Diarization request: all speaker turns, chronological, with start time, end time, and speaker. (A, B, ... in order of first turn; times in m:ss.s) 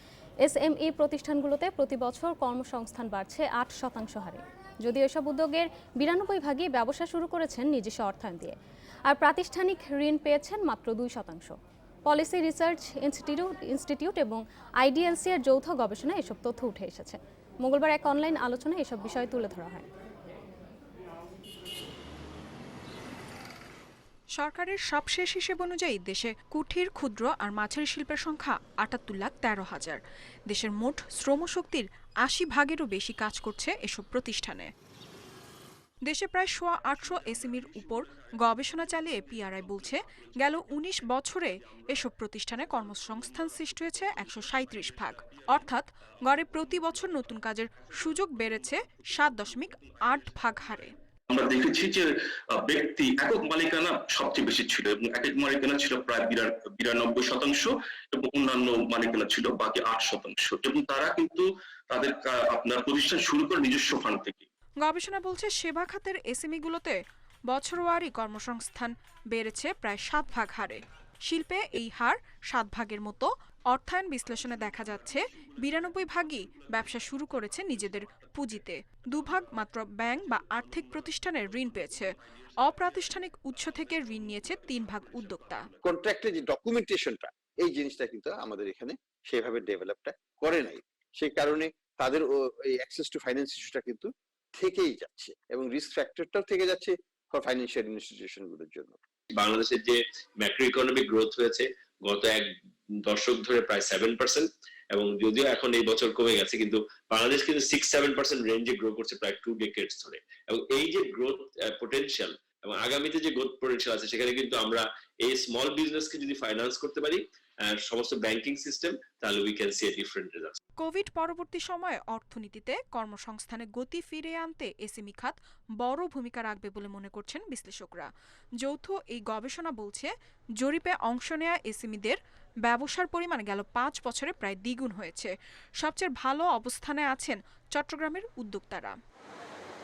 0:00.4-0:08.6 A
0:09.1-0:11.5 A
0:12.0-0:19.9 A
0:24.3-0:34.7 B
0:36.0-0:50.9 B
0:51.3-1:04.4 C
1:04.8-1:07.0 B
1:07.5-1:25.7 B
1:25.8-1:39.0 D
1:39.3-2:00.6 E
2:00.8-2:08.1 B
2:08.6-2:19.0 B